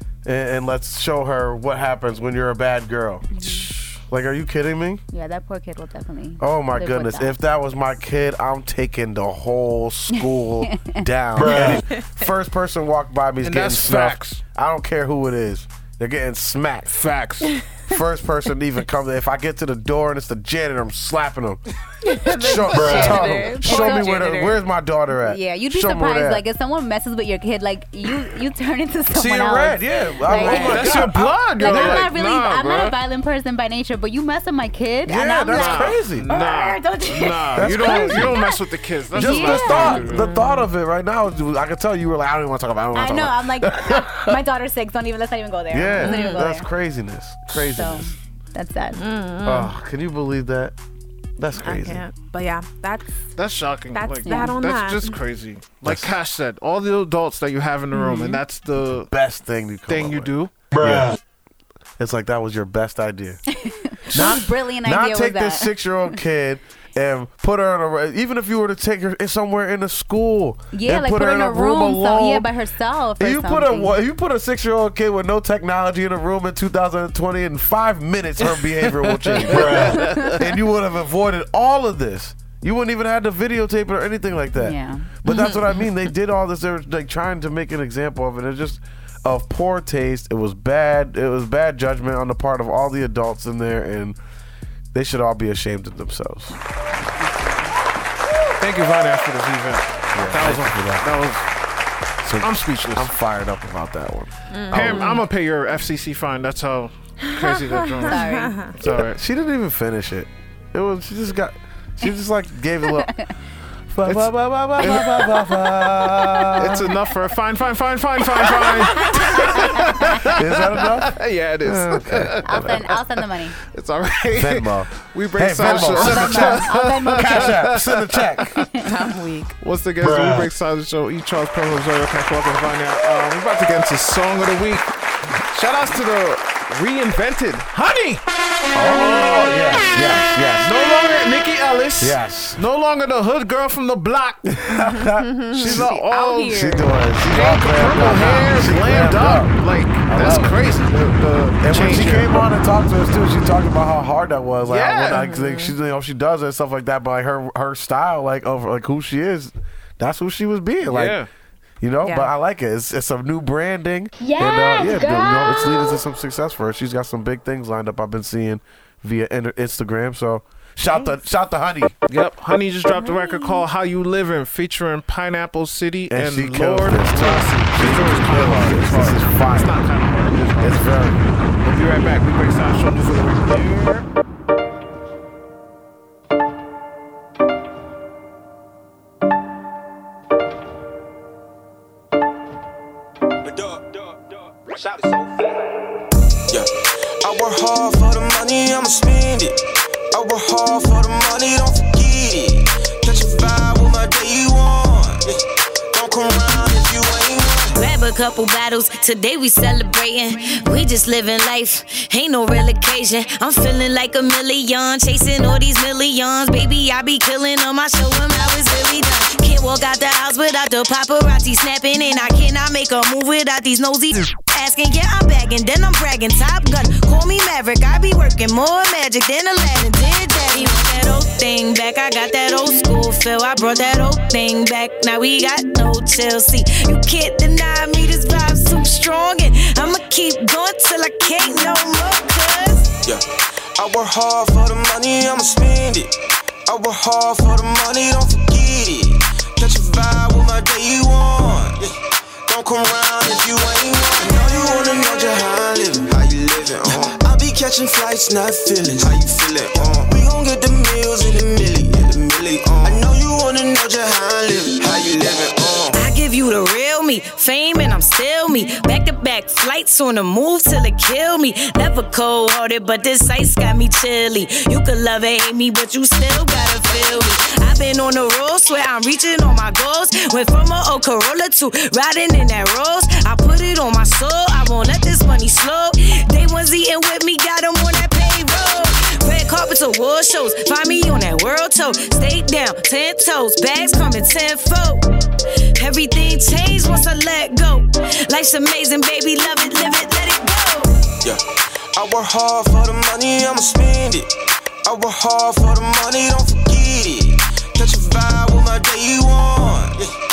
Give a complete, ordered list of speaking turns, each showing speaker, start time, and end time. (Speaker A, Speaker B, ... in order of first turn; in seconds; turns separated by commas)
Speaker A: 0.2-5.0, Speaker B: 3.3-3.7, Speaker B: 5.1-7.4, Speaker A: 6.4-16.9, Speaker B: 10.1-11.0, Speaker C: 13.4-14.4, Speaker C: 16.9-17.5, Speaker A: 17.9-21.6, Speaker D: 22.0-24.6, Speaker A: 22.2-26.4, Speaker B: 23.6-24.3, Speaker B: 25.2-38.6, Speaker A: 29.1-32.1, Speaker C: 30.3-33.0, Speaker A: 35.1-36.3, Speaker C: 35.5-40.3, Speaker A: 37.5-38.4, Speaker A: 39.1-44.4, Speaker B: 39.2-40.1, Speaker D: 40.1-40.6, Speaker B: 43.0-46.7, Speaker A: 45.7-48.1, Speaker D: 46.0-46.5, Speaker B: 47.5-49.0, Speaker D: 49.0-49.7, Speaker A: 49.4-50.8, Speaker A: 51.4-52.0, Speaker D: 51.6-53.1, Speaker C: 53.4-59.1, Speaker D: 53.9-55.2, Speaker B: 54.2-54.5, Speaker A: 55.8-56.1, Speaker A: 59.1-61.1, Speaker C: 59.9-60.5, Speaker A: 62.0-63.4, Speaker B: 63.5-65.7, Speaker A: 64.1-72.5, Speaker B: 70.7-74.0, Speaker A: 73.2-94.2, Speaker C: 78.5-80.4, Speaker B: 79.6-80.3, Speaker B: 84.6-85.1, Speaker D: 85.3-85.6, Speaker A: 94.9-96.6, Speaker B: 97.2-97.7, Speaker C: 98.6-101.5, Speaker A: 100.1-101.1, Speaker A: 102.2-105.1, Speaker C: 102.4-103.1, Speaker D: 104.5-105.2, Speaker C: 104.7-109.2, Speaker D: 107.4-108.7, Speaker B: 108.0-108.6, Speaker A: 108.8-113.1, Speaker A: 113.9-117.0, Speaker C: 114.0-115.9, Speaker C: 116.5-128.8, Speaker B: 119.0-120.3, Speaker A: 119.3-122.8, Speaker B: 122.5-123.6, Speaker A: 124.4-128.6, Speaker B: 125.7-127.6, Speaker D: 128.8-129.6, Speaker C: 129.6-134.9, Speaker C: 135.5-138.2, Speaker A: 138.7-140.7, Speaker C: 138.8-139.6, Speaker C: 140.6-144.5, Speaker A: 142.0-142.6, Speaker A: 144.5-145.9, Speaker D: 144.7-146.9, Speaker C: 145.5-152.4, Speaker A: 146.5-150.9, Speaker A: 151.6-161.2, Speaker C: 154.7-155.3, Speaker D: 155.1-155.8, Speaker C: 160.8-161.3, Speaker A: 161.8-171.9, Speaker D: 162.0-162.3, Speaker B: 164.2-165.7, Speaker C: 172.1-180.9, Speaker A: 176.1-179.8, Speaker A: 180.6-181.3, Speaker C: 181.6-184.1, Speaker E: 197.2-199.6, Speaker E: 200.1-205.4, Speaker E: 205.9-207.8, Speaker F: 207.7-243.0, Speaker E: 243.8-246.1, Speaker E: 246.7-251.9, Speaker E: 252.5-266.0, Speaker F: 265.9-295.1, Speaker F: 295.8-301.1, Speaker E: 301.9-304.3, Speaker E: 304.9-310.1